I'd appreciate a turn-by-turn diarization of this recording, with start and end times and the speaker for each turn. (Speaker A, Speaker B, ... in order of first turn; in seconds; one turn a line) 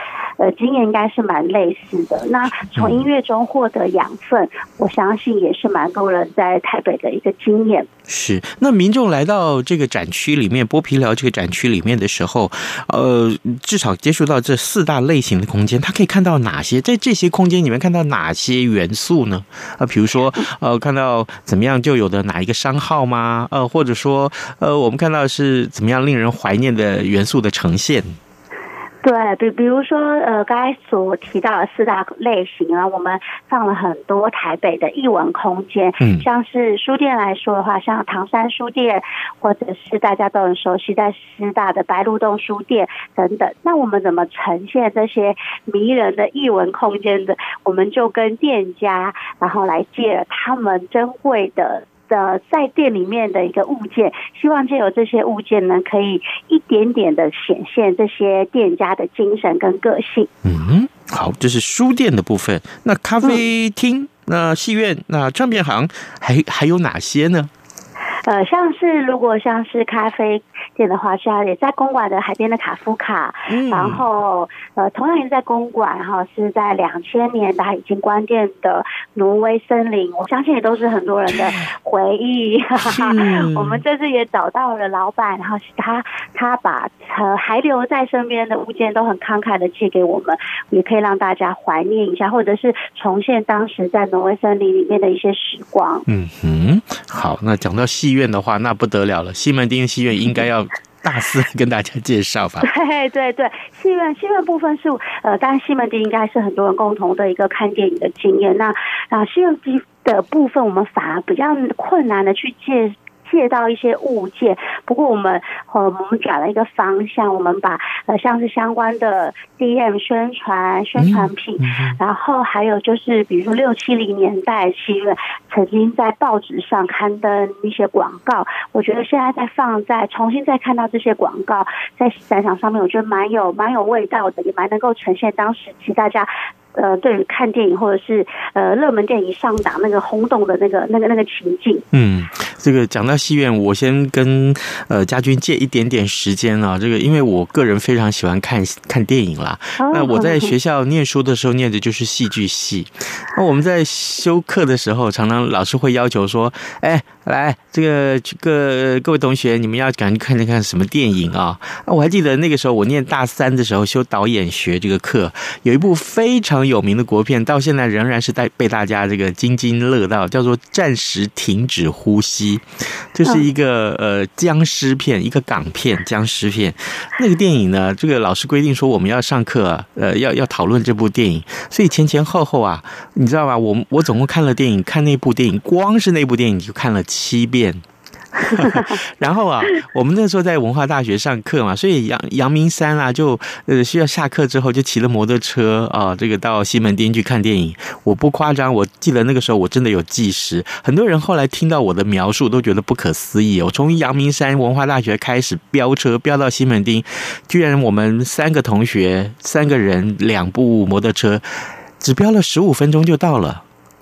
Speaker A: 0.4-7.9
Speaker B: 2.8-3.0
Speaker B: 8.1-28.2
Speaker A: 29.0-60.3
Speaker B: 36.0-36.3
Speaker B: 60.4-67.5
Speaker A: 68.2-96.0
Speaker B: 73.5-74.0
Speaker B: 82.8-83.8
Speaker B: 96.1-102.7
Speaker A: 102.6-141.8
Speaker B: 121.0-122.0
Speaker B: 141.9-187.8
Speaker A: 149.8-150.5
Speaker B: 188.3-211.5
Speaker B: 212.0-213.6